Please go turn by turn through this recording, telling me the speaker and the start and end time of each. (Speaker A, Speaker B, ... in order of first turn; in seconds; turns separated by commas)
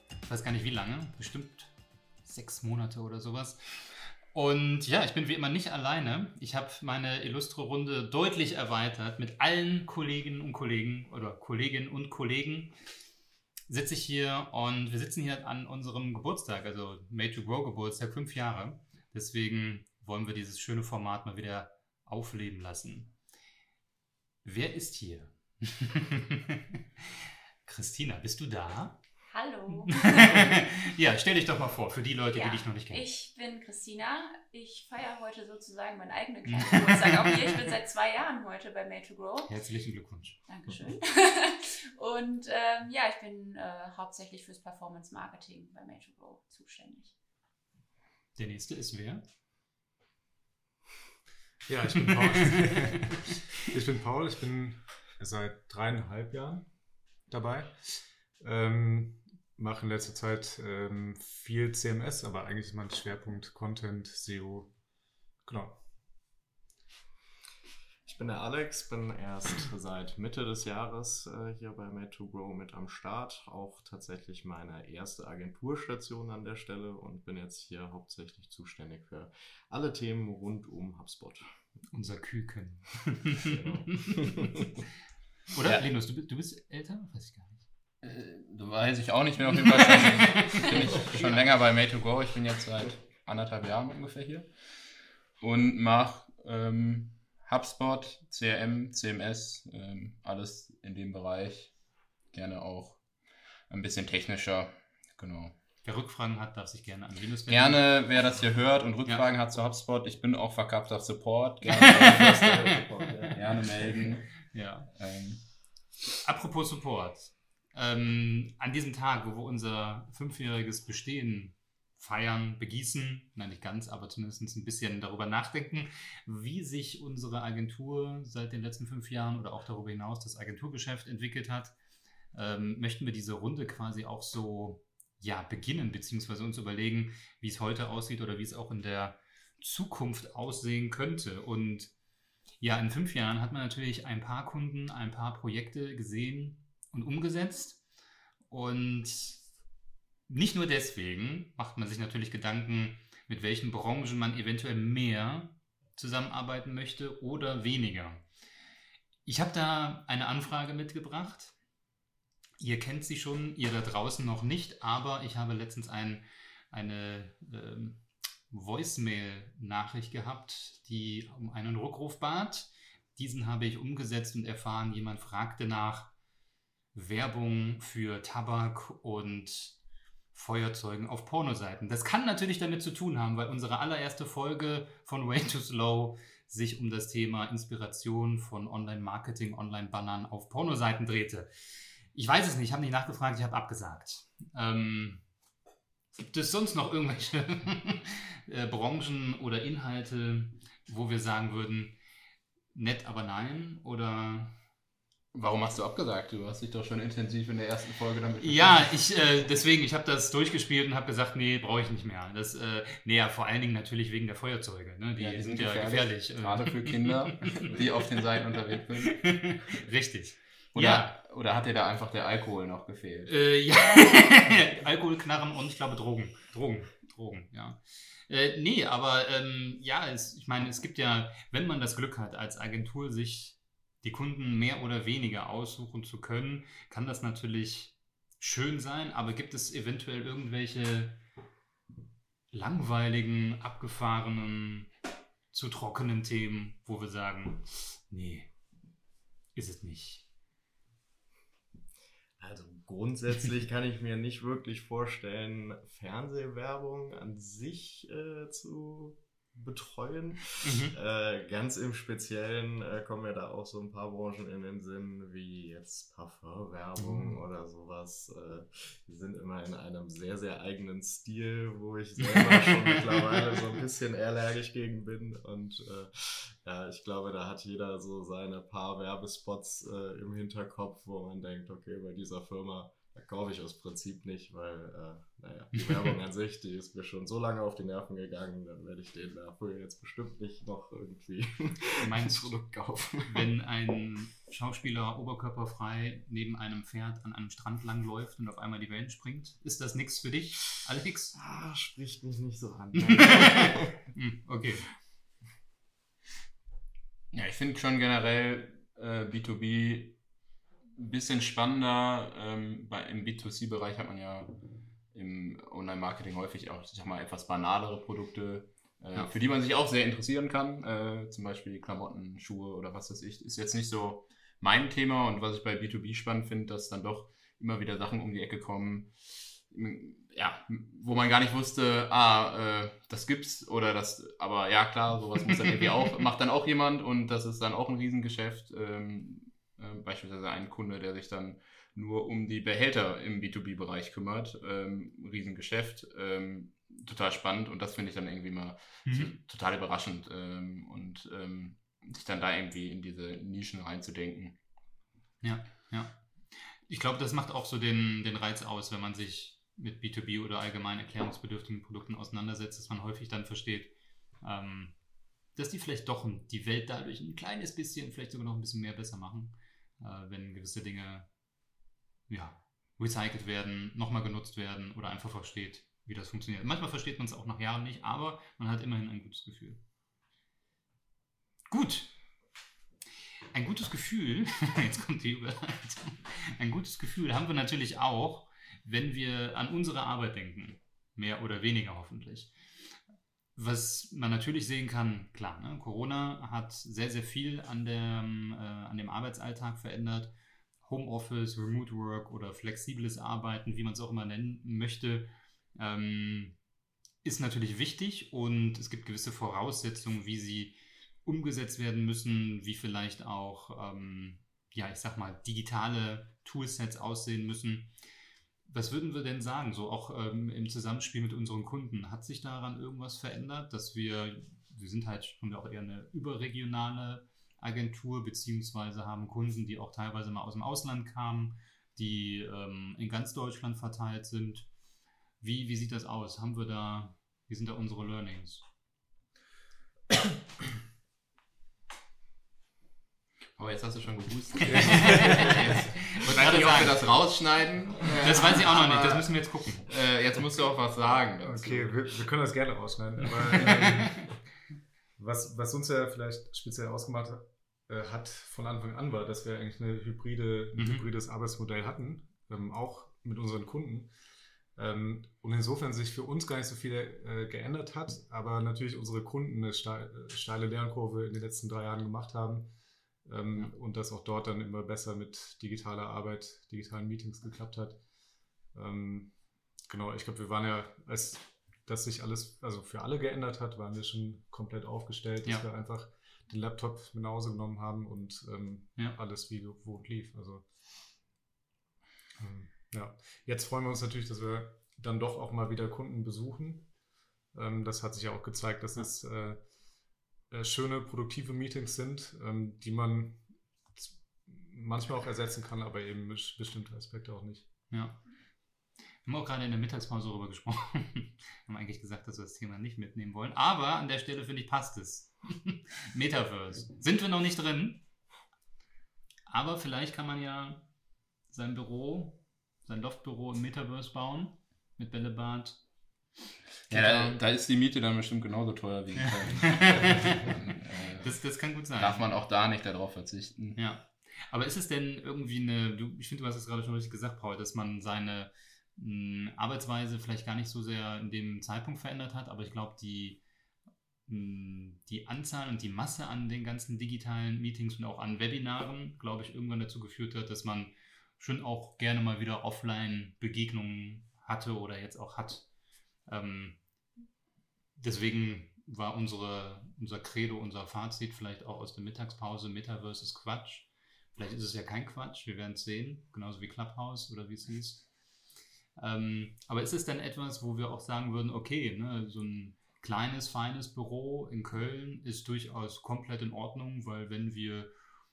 Speaker A: 0.3-1.7, Speaker A: 2.2-12.7, Speaker A: 13.7-23.1, Speaker A: 24.4-27.0, Speaker A: 27.6-29.0, Speaker B: 29.3-30.6, Speaker A: 29.9-33.1, Speaker B: 32.3-39.5, Speaker A: 36.5-37.3, Speaker A: 39.5-40.4, Speaker B: 40.5-47.1, Speaker A: 48.4-49.2, Speaker C: 51.6-56.7, Speaker C: 57.3-64.7, Speaker C: 65.4-65.8, Speaker D: 68.0-81.5, Speaker A: 81.9-84.7, Speaker D: 83.4-84.6, Speaker A: 85.5-87.6, Speaker E: 88.0-94.8, Speaker A: 89.5-91.4, Speaker E: 95.4-101.8, Speaker E: 102.3-103.0, Speaker E: 103.7-105.5, Speaker A: 105.8-107.8, Speaker E: 107.5-112.6, Speaker A: 111.7-112.7, Speaker D: 111.9-113.9, Speaker E: 113.3-115.5, Speaker A: 114.5-114.9, Speaker A: 116.2-131.7, Speaker A: 132.3-141.9, Speaker A: 142.6-147.8, Speaker A: 148.5-149.4, Speaker A: 150.3-158.2, Speaker A: 159.2-161.5, Speaker A: 162.6-176.1, Speaker A: 176.9-179.8, Speaker A: 180.3-195.2, Speaker A: 196.1-201.9, Speaker A: 202.7-204.6, Speaker E: 205.3-209.1, Speaker A: 208.4-217.8, Speaker E: 215.2-219.6, Speaker A: 219.1-221.1, Speaker E: 220.7-223.5, Speaker A: 223.3-241.2, Speaker A: 242.5-244.9, Speaker A: 245.5-248.5, Speaker A: 249.5-250.2, Speaker D: 252.4-293.5, Speaker A: 260.6-260.9, Speaker A: 292.0-292.6, Speaker A: 293.2-301.4, Speaker D: 301.4-304.0, Speaker A: 303.1-304.9, Speaker E: 307.3-310.2, Speaker E: 311.0-314.6, Speaker E: 315.1-354.6, Speaker A: 349.1-349.3, Speaker A: 355.4-364.9, Speaker A: 365.5-371.3, Speaker A: 372.3-379.8, Speaker A: 381.7-382.2, Speaker A: 383.5-392.5, Speaker A: 393.5-406.6, Speaker A: 407.2-417.9, Speaker A: 418.6-434.7, Speaker A: 435.4-438.6, Speaker E: 443.6-452.1, Speaker A: 444.6-447.0, Speaker C: 444.8-445.4, Speaker A: 448.2-449.9, Speaker C: 451.4-454.3, Speaker C: 455.2-464.1, Speaker A: 460.8-461.0, Speaker C: 464.7-472.7, Speaker C: 473.2-478.0, Speaker C: 478.7-479.3, Speaker C: 479.9-490.7, Speaker C: 492.4-496.9, Speaker C: 497.5-499.6, Speaker C: 500.5-507.7, Speaker A: 507.9-508.2, Speaker A: 509.2-518.0, Speaker A: 519.5-520.9, Speaker A: 521.5-525.8, Speaker A: 526.9-527.4, Speaker E: 526.9-533.8, Speaker A: 529.2-530.5, Speaker A: 531.2-532.3, Speaker A: 533.8-543.4, Speaker A: 544.3-555.7, Speaker A: 556.2-556.8, Speaker A: 558.0-568.1, Speaker A: 569.0-577.9